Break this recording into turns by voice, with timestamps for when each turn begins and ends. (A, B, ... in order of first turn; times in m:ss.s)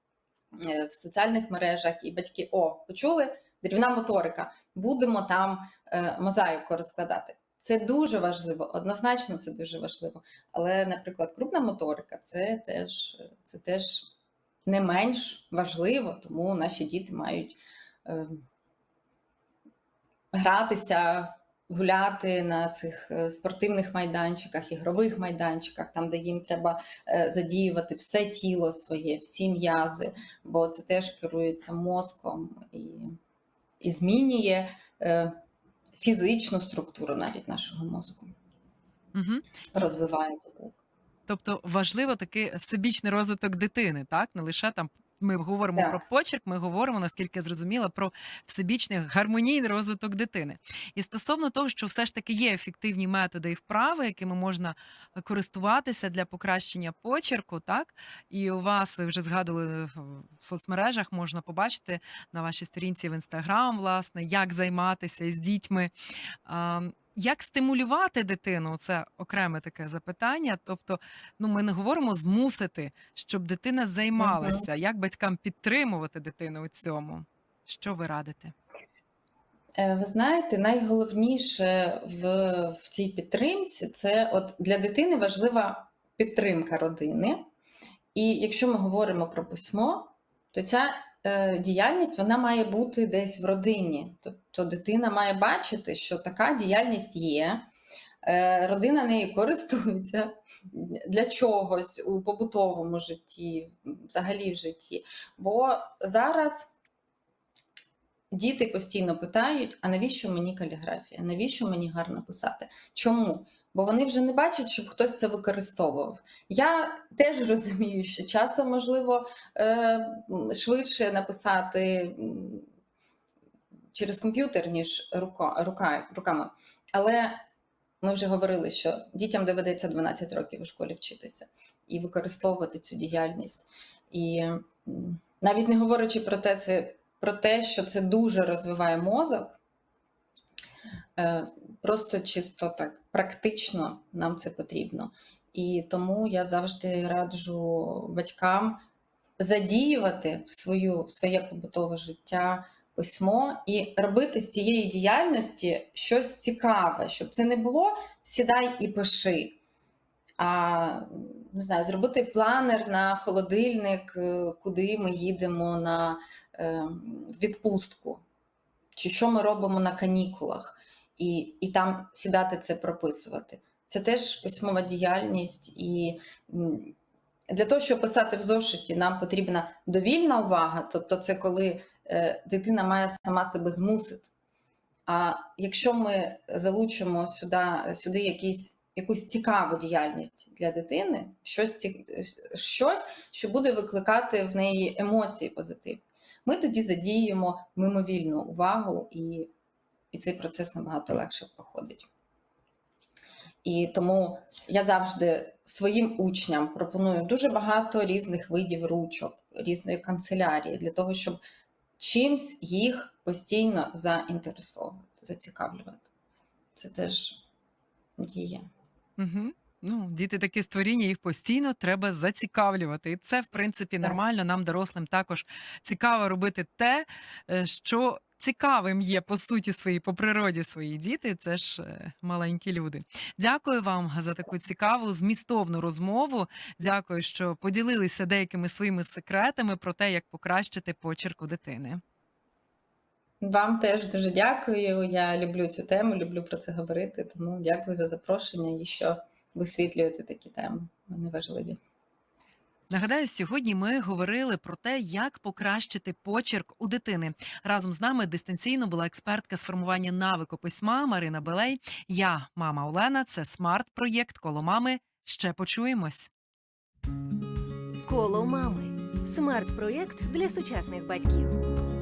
0:00.5-0:14.1 A
0:14.7-0:18.5 A
0:20.3-0:33.1 A
0:33.8-0:35.4 A
0:36.0-0:38.3 A
0:39.1-0:39.4 B
0:39.7-0:40.8 A
0:41.3-1:05.9 B
0:45.8-0:46.0 A
1:06.4-1:18.5 B
1:14.2-1:14.7 A
1:19.8-1:27.4 A
1:28.1-1:37.7 A
1:38.2-1:46.7 A
1:48.3-2:02.7 A
2:03.9-2:07.4 A
2:08.0-2:19.6 A
2:21.2-2:28.8 A
2:29.4-2:39.6 A
2:40.4-2:48.2 A
2:49.0-2:57.0 A
2:57.5-3:04.3 A
3:05.1-3:19.5 A
3:20.1-3:22.1 A
3:23.6-3:31.4 A
3:32.0-3:36.1 A
3:36.8-3:37.4 A
3:38.2-3:38.7 A
3:39.2-4:02.0 B
4:03.4-4:11.8 A
4:12.9-4:26.3 B
4:28.0-4:31.6 C